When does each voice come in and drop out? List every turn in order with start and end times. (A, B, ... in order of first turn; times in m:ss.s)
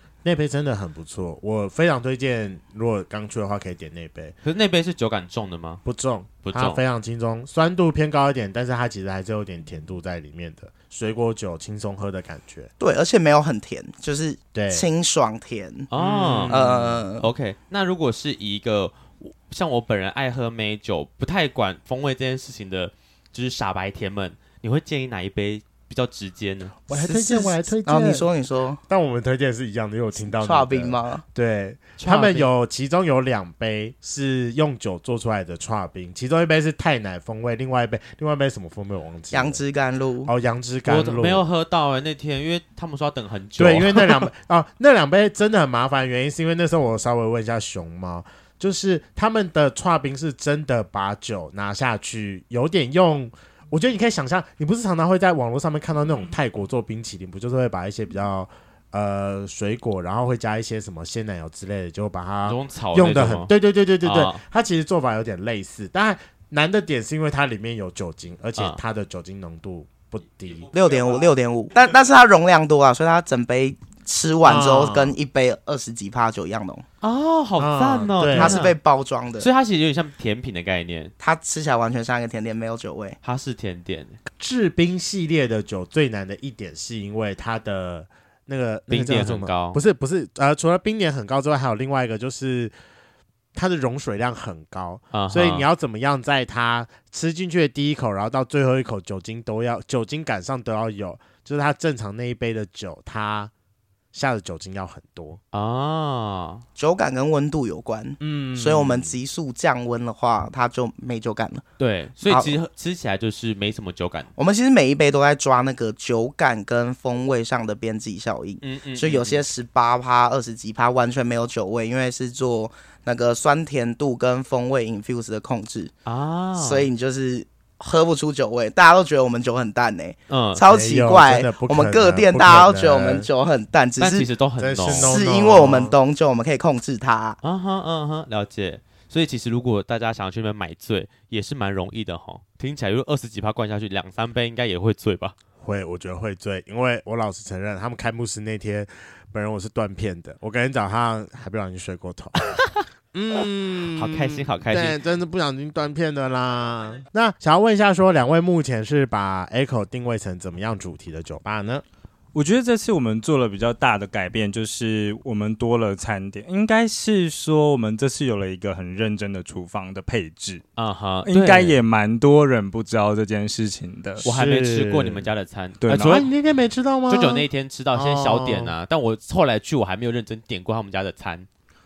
0:00.2-0:04.3 A
0:04.4-0:05.8 B
0:05.8-0:12.7 A
0:06.4-0:06.8 B
0:12.8-0:15.9 C
0:14.5-0:14.9 A
0:15.9-0:16.6 B
0:16.0-0:17.0 A
0:16.5-0:17.3 C
0:17.2-0:26.7 B
0:26.9-0:28.3 A
0:26.9-0:28.8 C
0:28.9-0:39.6 A
0:30.2-0:31.2 C
0:32.0-0:32.5 B
0:39.3-0:40.3 C
0:40.2-0:41.4 A
0:40.9-0:44.2 B
0:43.6-1:10.7 A
1:02.5-1:04.4 B
1:10.7-1:16.9 C
1:14.4-1:15.2 A
1:17.0-1:18.8 B
1:17.6-1:18.6 A
1:18.3-1:19.5 C
1:19.4-1:21.1 B
1:21.2-1:23.2 C
1:23.2-1:24.2 B
1:24.4-1:32.7 A
1:28.9-1:29.8 B
1:33.6-1:43.5 A
1:35.1-1:35.6 B
1:44.1-1:45.4 A
1:45.5-1:46.6 B
1:46.8-1:51.6 C
1:48.2-1:49.2 A
1:51.8-1:54.3 B
1:52.2-1:52.6 C
1:54.4-2:05.9 C
1:58.6-1:59.4 B
2:06.1-2:06.9 B
2:06.6-2:14.3 C
2:10.3-2:10.6 B
2:10.7-2:13.3 A
2:14.0-2:15.2 B
2:14.6-2:16.0 A
2:14.9-2:17.4 C
2:17.4-2:25.4 B
2:25.6-2:32.5 A
2:33.1-2:41.8 A
2:33.9-2:35.0 B
2:42.3-2:50.6 D
2:50.8-2:51.8 B
2:51.3-2:54.2 D
2:54.2-2:55.3 A
2:54.2-2:56.3 B
2:55.8-2:56.2 D
2:55.9-2:58.7 A
2:57.1-3:01.5 B